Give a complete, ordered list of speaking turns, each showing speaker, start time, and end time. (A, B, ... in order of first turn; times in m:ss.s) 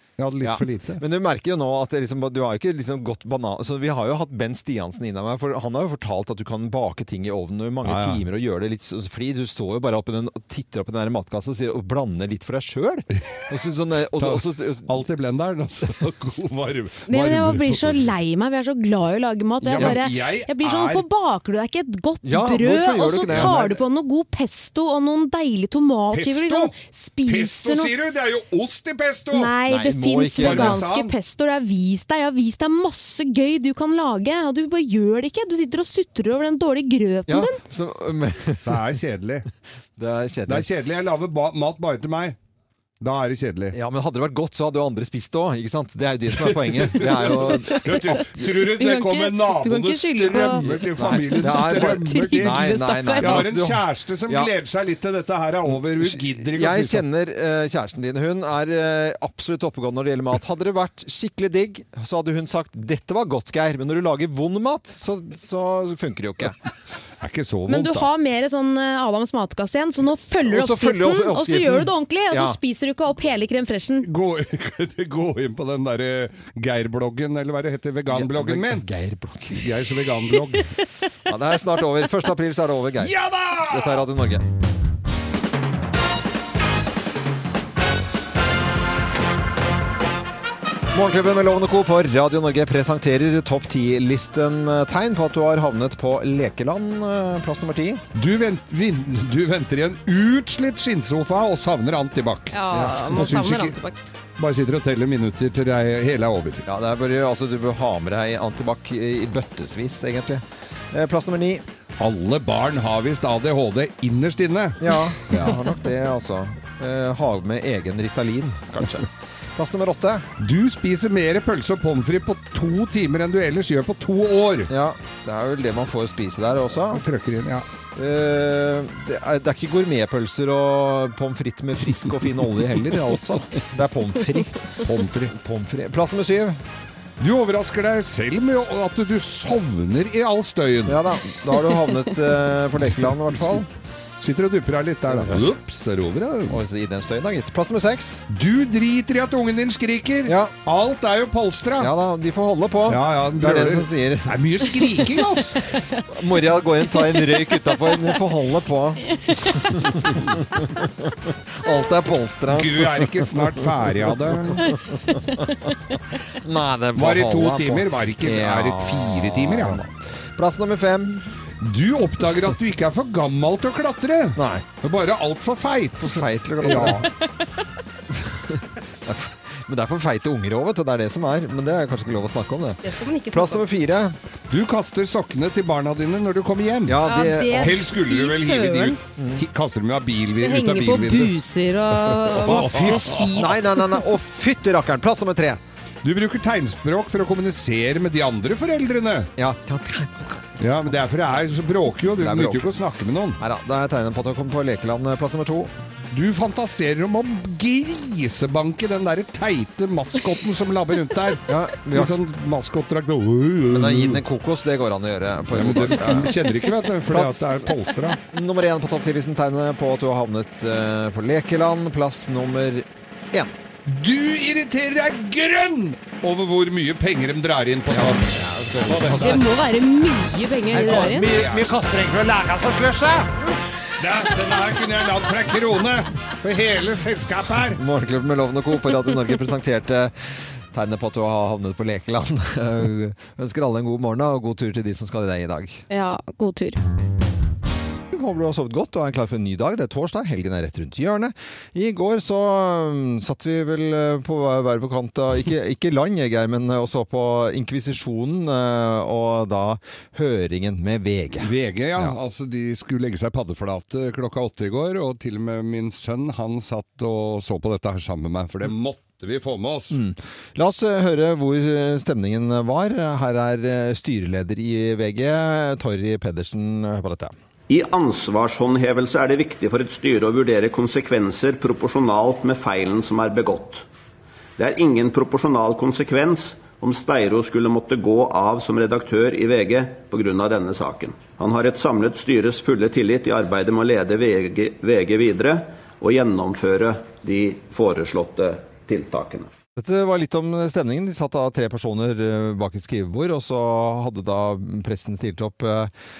0:00.2-0:01.0 A
0:00.4-0:14.9 B
0:07.8-0:08.2 A
0:14.2-0:18.1 A
0:17.1-0:27.9 C
0:19.6-0:21.0 A
0:22.2-0:23.8 B
0:23.3-0:23.6 A
0:26.1-0:26.7 A
0:27.2-0:29.5 A
0:29.3-0:37.6 C
0:29.7-0:30.8 B
0:30.4-0:31.1 A
0:37.3-0:38.8 B
0:38.6-0:39.5 A
0:40.0-0:40.7 B
0:40.5-0:42.4 A
0:43.0-0:43.8 A
0:43.7-0:48.4 B
0:46.3-0:57.0 A
0:47.7-0:48.0 C
0:48.7-0:50.6 C
0:50.2-0:54.5 B
0:51.4-0:53.4 C
0:56.0-1:06.6 B
1:07.2-1:08.1 A
1:07.7-1:14.1 C
1:10.4-1:12.6 B
1:14.0-1:18.9 A
1:18.1-1:19.7 B
1:19.6-1:20.7 A
1:21.3-1:23.1 B
1:23.0-1:24.1 A
1:23.7-1:24.4 B
1:30.9-1:38.0 B
1:38.2-1:43.8 A
1:42.5-1:44.0 C
1:42.7-1:43.3 B
1:44.4-1:46.6 A
1:46.6-1:51.6 B
1:52.0-1:55.6 A
1:54.8-2:00.3 B
2:00.4-2:04.7 A
2:04.7-2:07.0 B
2:06.9-2:07.7 A
2:08.0-2:14.6 B
2:14.8-2:15.3 A
2:15.3-2:16.6 B
2:17.2-2:21.0 A
2:20.9-2:23.7 B
2:23.0-2:23.6 A
2:24.2-2:26.6 A
2:25.1-2:25.5 B
2:26.5-2:28.2 B
2:28.3-2:31.9 A
2:30.3-2:30.5 B
2:31.8-2:34.4 B
2:32.9-2:35.7 A
2:36.1-2:45.5 B
2:42.5-2:44.7 A
2:46.2-2:51.3 B
2:47.0-2:49.8 A
2:51.6-2:57.1 A
2:54.4-2:54.7 B
2:56.0-2:57.1 B
2:58.1-3:02.8 B
3:02.8-3:03.6 C
3:03.3-3:04.2 B
3:04.5-3:11.4 A
3:06.9-3:07.9 B
3:07.0-3:09.0 C
3:09.2-3:09.4 B
3:10.4-3:14.0 C
3:12.1-3:13.5 A
3:12.4-3:15.6 B
3:16.0-3:19.3 A
3:19.4-3:20.7 B
3:20.6-3:23.4 A
3:22.2-3:22.7 B
3:23.4-3:25.7 B
3:26.1-3:34.2 A
3:31.5-3:32.2 B
3:33.7-3:36.4 B
3:35.5-3:38.2 A
3:37.1-3:37.7 B
3:38.3-3:43.6 B
3:43.9-3:49.4 A
3:47.9-3:49.4 B
3:49.2-3:51.3 C
3:50.7-3:53.3 B
3:50.7-3:51.8 A
3:54.0-3:57.8 A
3:57.7-4:05.8 B
4:05.9-4:06.8 C
4:08.1-4:22.2 B
4:21.4-4:30.0 A
4:29.9-4:37.3 B
4:37.7-4:43.8 D
4:44.6-4:59.5 D
4:59.8-5:05.9 B